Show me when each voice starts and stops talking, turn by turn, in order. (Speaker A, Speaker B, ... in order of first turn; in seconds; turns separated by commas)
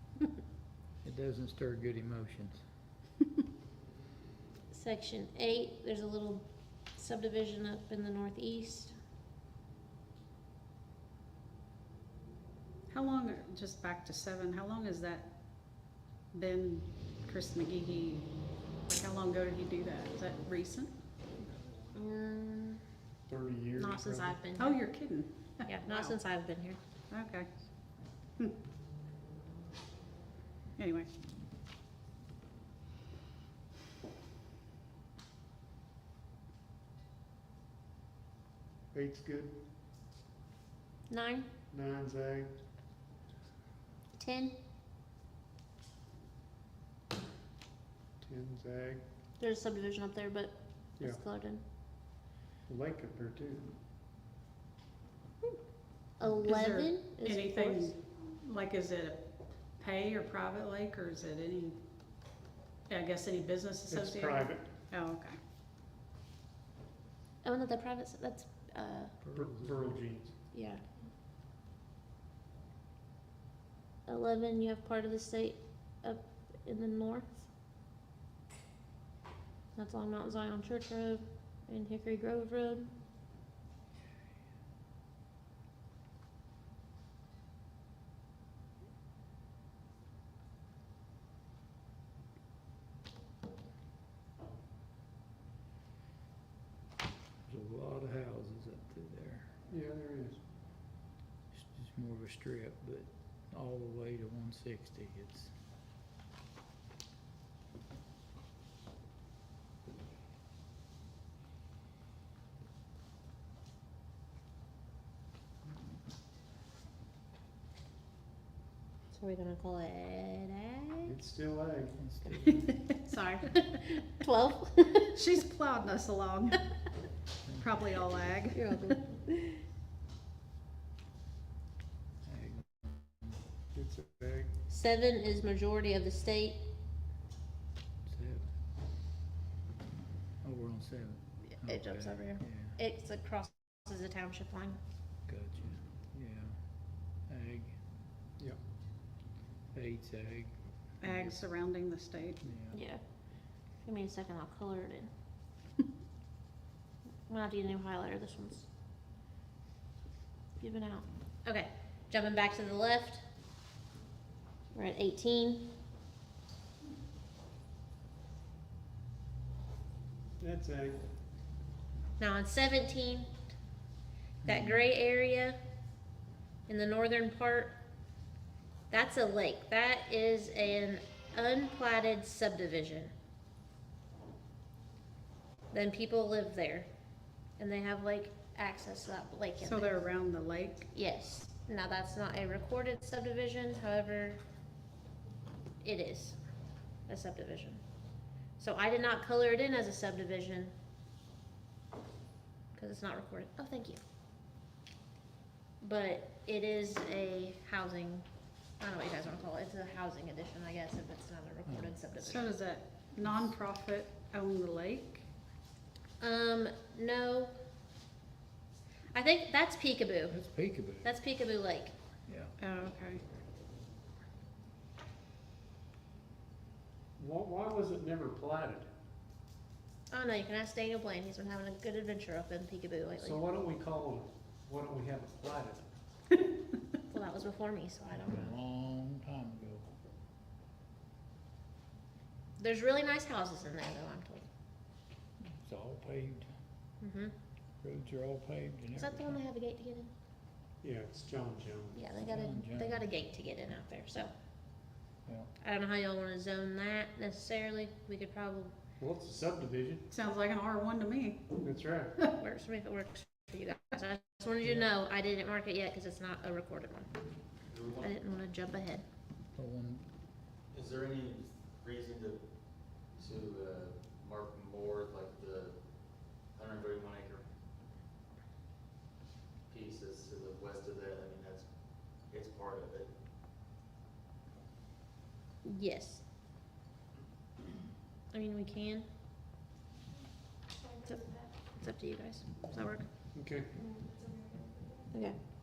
Speaker A: 1.0-2.6, Speaker B: 4.7-8.9, Speaker C: 12.9-15.3, Speaker C: 16.3-18.3, Speaker C: 18.9-20.9, Speaker B: 21.9-22.8, Speaker D: 23.3-24.4, Speaker B: 23.8-24.8, Speaker C: 24.6-26.1, Speaker B: 25.6-26.8, Speaker C: 27.1-27.5, Speaker C: 30.8-31.1, Speaker D: 38.9-39.6, Speaker B: 41.1-41.5, Speaker D: 41.7-42.5, Speaker B: 44.2-44.5, Speaker D: 48.2-49.0, Speaker B: 49.4-51.6, Speaker D: 52.7-53.7, Speaker B: 56.2-57.9, Speaker C: 56.4-59.2, Speaker C: 59.8-61.8, Speaker C: 62.9-65.4, Speaker D: 63.9-64.7, Speaker B: 67.4-69.1, Speaker A: 69.2-69.9, Speaker D: 69.3-70.3, Speaker B: 70.5-70.8, Speaker B: 74.1-77.5, Speaker B: 79.8-82.9, Speaker A: 97.5-99.5, Speaker D: 99.7-100.4, Speaker A: 101.5-105.5, Speaker B: 119.1-121.1, Speaker D: 121.0-122.0, Speaker A: 122.0-122.7, Speaker B: 123.0-125.2, Speaker C: 125.1-126.7, Speaker C: 127.6-128.9, Speaker B: 128.5-129.6, Speaker A: 132.2-132.7, Speaker D: 133.7-134.5, Speaker B: 134.7-136.6, Speaker A: 138.1-138.4, Speaker A: 140.4-142.8, Speaker B: 141.5-144.8, Speaker A: 145.3-146.5, Speaker A: 147.3-147.8, Speaker A: 149.7-150.5, Speaker C: 151.0-152.4, Speaker A: 151.1-151.4, Speaker A: 152.4-152.8, Speaker B: 152.7-153.0, Speaker B: 153.8-155.1, Speaker B: 157.3-158.7, Speaker B: 160.6-163.2, Speaker B: 164.7-165.7, Speaker D: 170.4-171.0, Speaker B: 172.2-173.3, Speaker B: 174.4-175.6, Speaker A: 174.4-174.8, Speaker B: 176.7-177.7, Speaker B: 178.9-183.1, Speaker B: 185.7-186.9, Speaker B: 187.6-190.0, Speaker C: 189.6-190.9, Speaker B: 190.9-194.4, Speaker B: 195.8-196.4, Speaker B: 197.1-197.8, Speaker B: 198.6-200.7, Speaker B: 202.7-204.0, Speaker B: 205.8-208.2, Speaker B: 208.8-212.5, Speaker A: 211.7-212.0, Speaker C: 212.2-215.2, Speaker B: 216.2-217.5, Speaker B: 219.1-220.4, Speaker A: 220.3-221.1, Speaker B: 221.0-221.9, Speaker A: 222.3-222.5, Speaker C: 222.6-223.2, Speaker D: 227.2-228.9, Speaker B: 230.1-233.4, Speaker D: 233.2-235.8, Speaker B: 237.1-238.5, Speaker A: 238.3-239.9, Speaker B: 242.6-244.4, Speaker A: 245.4-246.4, Speaker B: 247.0-247.3, Speaker A: 247.8-249.4, Speaker B: 248.9-250.1, Speaker D: 250.8-252.0, Speaker B: 251.9-254.3, Speaker A: 252.3-253.0, Speaker A: 255.2-255.5, Speaker B: 255.6-258.7, Speaker D: 259.0-260.1, Speaker C: 260.1-261.6, Speaker D: 261.6-262.1, Speaker B: 262.3-267.1, Speaker E: 267.7-268.1, Speaker B: 268.0-269.0, Speaker A: 269.5-270.0, Speaker E: 270.7-272.4, Speaker E: 273.1-275.8, Speaker E: 276.5-277.4, Speaker E: 279.7-281.6, Speaker E: 282.3-283.1, Speaker B: 285.6-286.2, Speaker B: 288.3-289.1, Speaker B: 291.0-293.1, Speaker D: 293.3-293.8, Speaker B: 295.1-295.4